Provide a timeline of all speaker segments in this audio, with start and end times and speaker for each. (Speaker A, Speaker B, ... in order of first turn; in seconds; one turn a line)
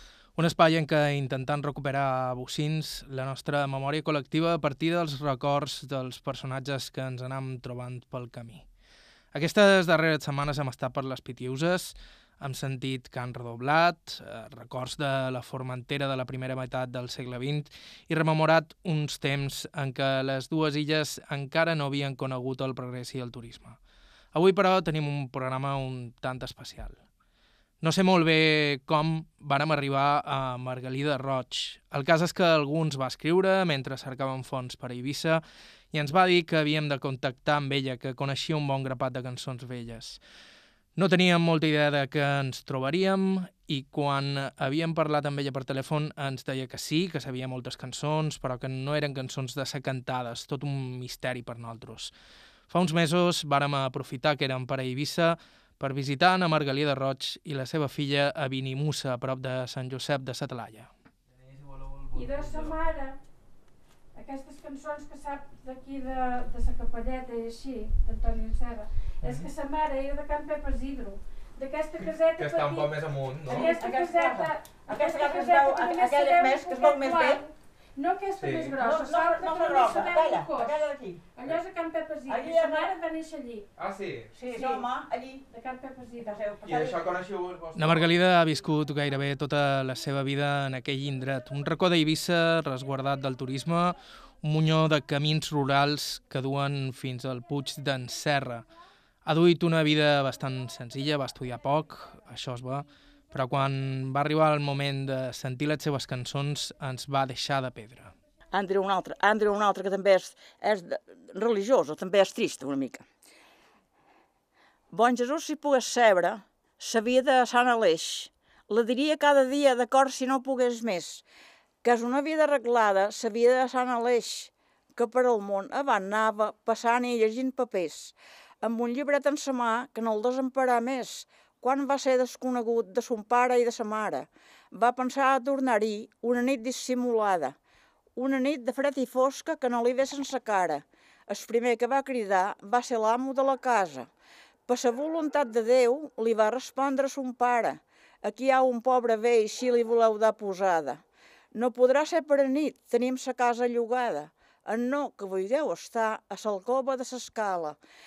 Speaker A: 0.3-8.7
Speaker A: 9.3-23.8
Speaker A: 24.3-27.0
Speaker A: 27.8-40.2
Speaker A: 41.0-52.1
Speaker A: 52.7-60.9
Speaker B: 61.4-62.7
Speaker C: 62.1-63.2
Speaker C: 64.1-83.7
Speaker B: 72.4-73.7
Speaker D: 73.5-77.4
Speaker B: 78.4-78.8
Speaker D: 78.8-81.2
Speaker D: 82.3-82.9
Speaker B: 83.8-84.3
Speaker D: 84.3-85.4
Speaker C: 84.5-84.8
Speaker C: 85.5-86.5
Speaker D: 86.2-87.0
Speaker B: 86.6-88.1
Speaker A: 87.8-98.6
Speaker A: 99.2-108.1
Speaker D: 108.5-113.0
Speaker D: 114.9-121.2
Speaker D: 121.8-137.5
Speaker D: 138.2-144.1
Speaker D: 144.7-151.0
Speaker D: 151.5-157.8